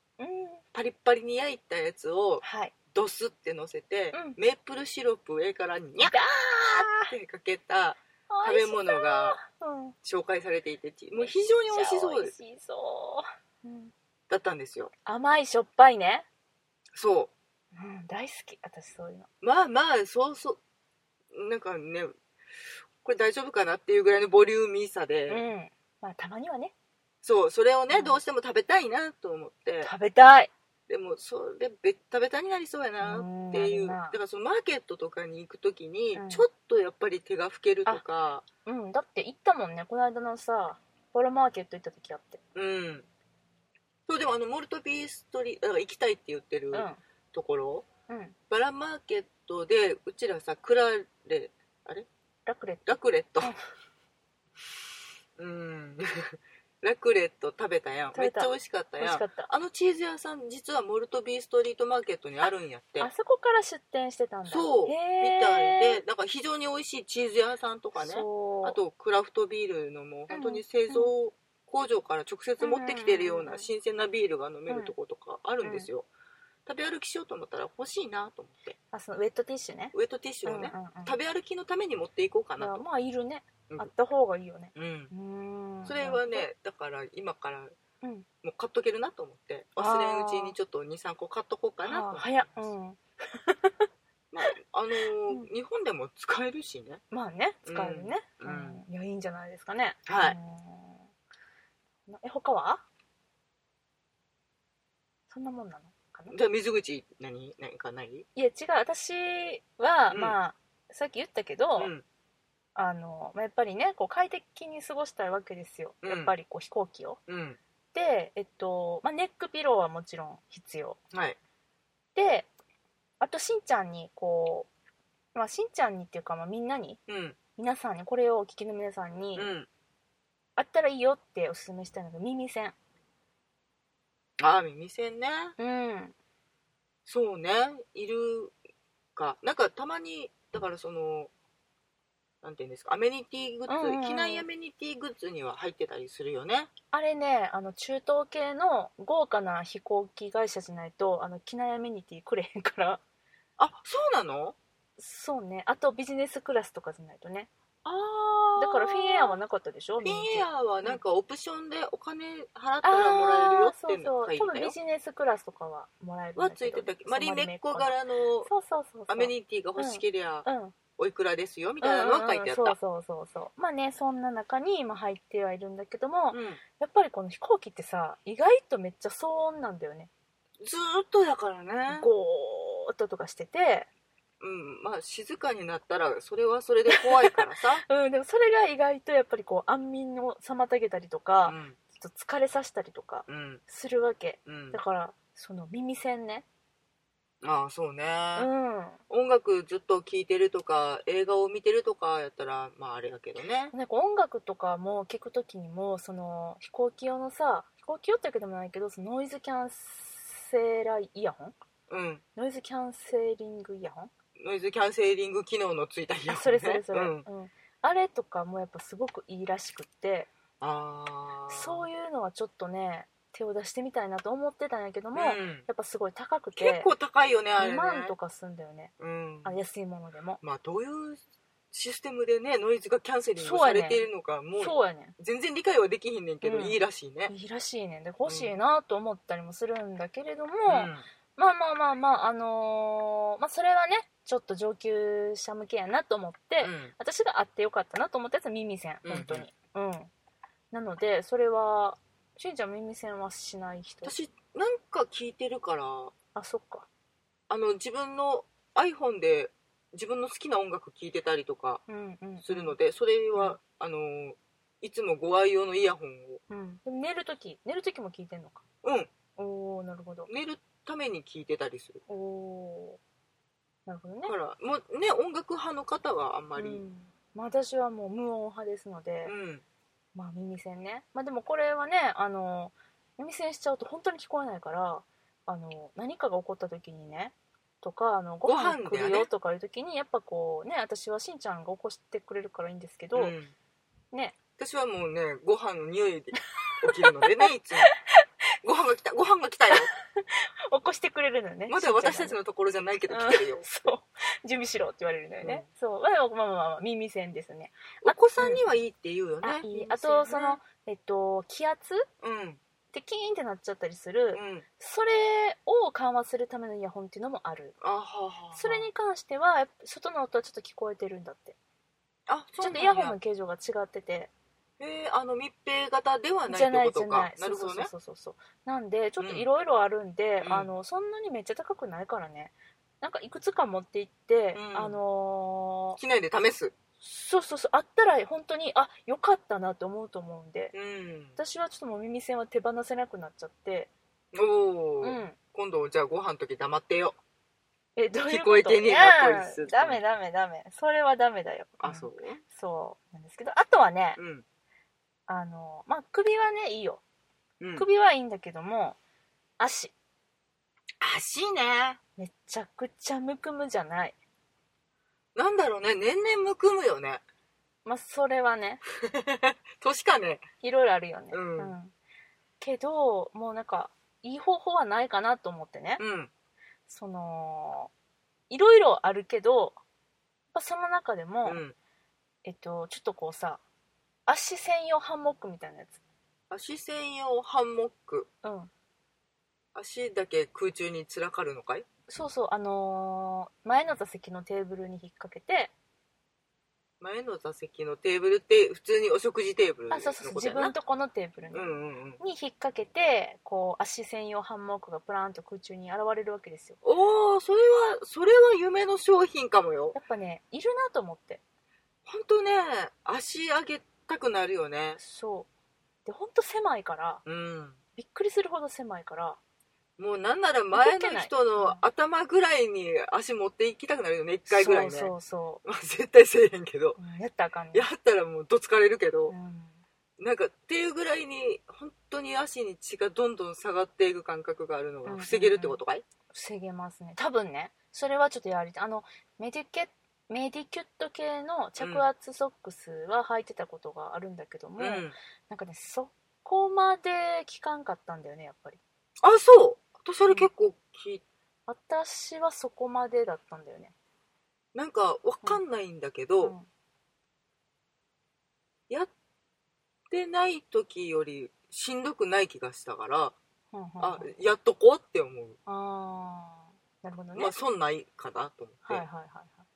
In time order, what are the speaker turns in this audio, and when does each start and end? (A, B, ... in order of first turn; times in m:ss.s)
0:00.2-0:00.6 A
0:00.7-0:06.2 B
0:02.4-0:02.7 A
0:04.1-0:04.4 A
0:06.0-0:07.1 A
0:06.9-0:09.4 B
0:08.3-0:10.0 A
0:10.0-0:12.3 B
0:11.2-0:13.9 A
0:14.3-0:14.9 B
0:15.1-0:16.3 A
0:17.0-0:17.3 B
0:17.8-0:19.3 A
0:19.4-0:20.6 B
0:21.3-0:22.1 B
0:23.0-0:25.4 B
0:25.3-0:26.7 A
0:27.2-0:29.9 B
0:27.9-0:28.2 A
0:29.8-0:30.5 A
0:30.9-0:38.4 B
0:33.0-0:34.2 A
0:36.1-0:36.5 A
0:38.7-0:42.4 A
0:42.6-0:43.1 B
0:44.1-0:47.9 B
0:46.7-0:47.0 A
0:48.1-0:48.4 A
0:48.5-0:52.1 B
0:52.5-0:52.9 A
0:52.9-0:53.5 B
0:55.4-1:03.1 B
0:58.1-0:59.5 A
1:03.0-1:06.0 A
1:04.5-1:16.1 B
1:08.0-1:08.8 A
1:10.3-1:11.1 A
1:12.6-1:13.7 A
1:14.7-1:14.9 A
1:15.6-1:15.9 A
1:16.7-1:18.8 B
1:18.9-1:21.2 A
1:19.9-1:22.8 B
1:22.6-1:26.5 A
1:24.8-1:25.1 B
1:25.9-1:27.8 B
1:28.0-1:28.3 A
1:28.4-1:32.7 B
1:29.8-1:30.6 A
1:31.8-1:33.8 A
1:34.3-1:37.0 B
1:37.1-1:41.1 A
1:37.6-1:38.8 B
1:40.1-1:40.4 B
1:42.1-1:42.8 A
1:45.3-1:46.4 A
1:46.3-1:48.3 B
1:48.4-1:51.9 A
1:50.1-1:50.4 B
1:51.8-1:52.0 B
1:52.8-1:57.2 A
1:56.0-1:56.3 B
1:57.3-1:57.6 B
1:57.9-2:01.0 A
2:01.1-2:01.4 B
2:02.2-2:02.5 A
2:03.2-2:04.7 A
2:05.4-2:07.0 A
2:07.1-2:07.4 B
2:07.6-2:09.5 A
2:09.4-2:09.7 B
2:10.6-2:12.8 A
2:14.4-2:15.6 B
2:15.6-2:16.2 A
2:17.1-2:18.5 B
2:19.2-2:21.3 B
2:22.4-2:26.7 B
2:23.7-2:24.5 A
2:26.9-2:33.0 A
2:33.6-2:34.6 B
2:35.0-2:37.5 A
2:37.8-2:39.4 B
2:38.6-2:41.0 A
2:40.0-2:44.8 B
2:42.8-2:48.0 A
2:46.4-2:48.5 B
2:48.5-2:50.8 A
2:49.1-2:50.5 B
2:51.0-2:52.8 B
2:51.8-3:00.1 A
2:56.3-2:56.6 B
3:00.6-3:02.1 B
3:01.9-3:03.9 A
3:04.4-3:07.8 B
3:06.9-3:16.4 A
3:11.5-3:11.8 B
3:13.3-3:13.6 B
3:14.5-3:14.8 B
3:17.4-3:18.5 B
3:18.4-3:19.0 A
3:19.1-3:23.7 B
3:23.7-3:31.6 A
3:31.9-3:32.2 B
3:32.4-3:34.1 A
3:34.4-3:37.3 B
3:36.3-3:40.3 A
3:40.6-3:41.9 B
3:41.5-3:46.9 A
3:45.2-3:45.7 B
3:46.6-3:48.2 B
3:47.6-3:48.9 A
3:49.0-3:49.6 B
3:49.4-3:50.4 A
3:50.4-3:57.3 B
3:53.4-3:54.1 A
3:54.6-3:55.2 A
3:56.4-4:10.1 A
3:58.2-3:58.5 B
4:00.7-4:01.0 B
4:06.6-4:06.9 B
4:09.0-4:09.5 B
4:10.7-4:14.1 A
4:14.0-4:16.1 B
4:16.4-4:16.9 A
4:17.5-4:21.8 B
4:21.9-4:22.8 A
4:22.4-4:26.4 B
4:26.5-4:28.6 A
4:28.8-4:29.1 B
4:29.4-4:30.3 A
4:30.3-4:32.0 B
4:32.1-4:33.0 A
4:33.9-4:34.4 A
4:34.2-4:36.8 B
4:36.6-4:39.3 A
4:39.2-4:39.6 B
4:40.2-4:53.4 A
4:48.4-4:49.3 B
4:53.2-4:53.5 B
4:54.6-4:57.9 B
4:56.8-4:58.1 A
4:58.6-4:59.9 B
4:59.7-5:02.4 A
5:01.7-5:03.9 B
5:03.1-5:08.6 A
5:08.0-5:10.6 B
5:09.4-5:12.1 A
5:12.2-5:12.6 B
5:12.9-5:17.8 A
5:14.3-5:14.6 B
5:17.8-5:18.9 B
5:18.5-5:21.6 A
5:22.3-5:23.2 B
5:22.6-5:24.3 A
5:24.8-5:27.9 B
5:26.5-5:36.0 A
5:29.2-5:29.5 B
5:30.4-5:30.7 B
5:34.5-5:35.0 B
5:36.0-5:36.7 B
5:37.0-5:40.8 A
5:40.7-5:41.4 B
5:41.4-5:43.9 A
5:44.3-5:47.2 B
5:45.0-5:45.4 A
5:48.0-5:54.2 A
5:48.3-5:50.0 B
5:51.8-5:52.4 B
5:54.2-5:54.4 B
5:55.3-5:57.0 A
5:57.6-5:57.9 B
5:57.8-5:59.0 A
5:59.6-5:59.9 A
6:01.0-6:02.0 B
6:02.2-6:04.2 A
6:05.4-6:07.2 B
6:07.8-6:08.8 A
6:09.0-6:10.5 B
6:10.6-6:11.9 A
6:11.3-6:11.7 B
6:12.6-6:16.0 A
6:16.0-6:16.3 B
6:16.9-6:17.9 A
6:18.5-6:19.8 A
6:20.5-6:21.6 A
6:21.4-6:21.8 B
6:22.4-6:23.6 A
6:24.3-6:26.0 A
6:26.5-6:28.3 B
6:28.4-6:28.7 A
6:29.8-6:31.9 B
6:32.1-6:35.7 A
6:37.0-6:40.8 B
6:39.9-6:46.8 A
6:41.5-6:42.2 B
6:46.8-6:50.0 B
6:49.9-6:51.4 A
6:52.1-6:55.0 B
6:55.0-6:55.5 A
6:56.1-6:57.2 A
6:57.2-6:57.8 B
6:58.0-6:59.4 A
7:00.0-7:05.1 B
7:00.7-7:01.8 A
7:04.5-7:05.6 A
7:05.6-7:07.0 B
7:07.0-7:07.9 A
7:07.7-7:09.4 B
7:09.3-7:09.8 A
7:10.2-7:16.0 B
7:15.0-7:15.8 A
7:16.3-7:28.8 A
7:21.8-7:22.1 B
7:24.8-7:25.2 B
7:29.2-7:31.2 B
7:31.7-7:33.9 A
7:34.7-7:36.6 B
7:36.4-7:36.7 A
7:40.1-7:43.4 B
7:43.7-7:44.3 A
7:44.0-7:45.6 B
7:45.7-7:47.6 A
7:47.4-7:49.0 B
7:48.9-7:49.6 A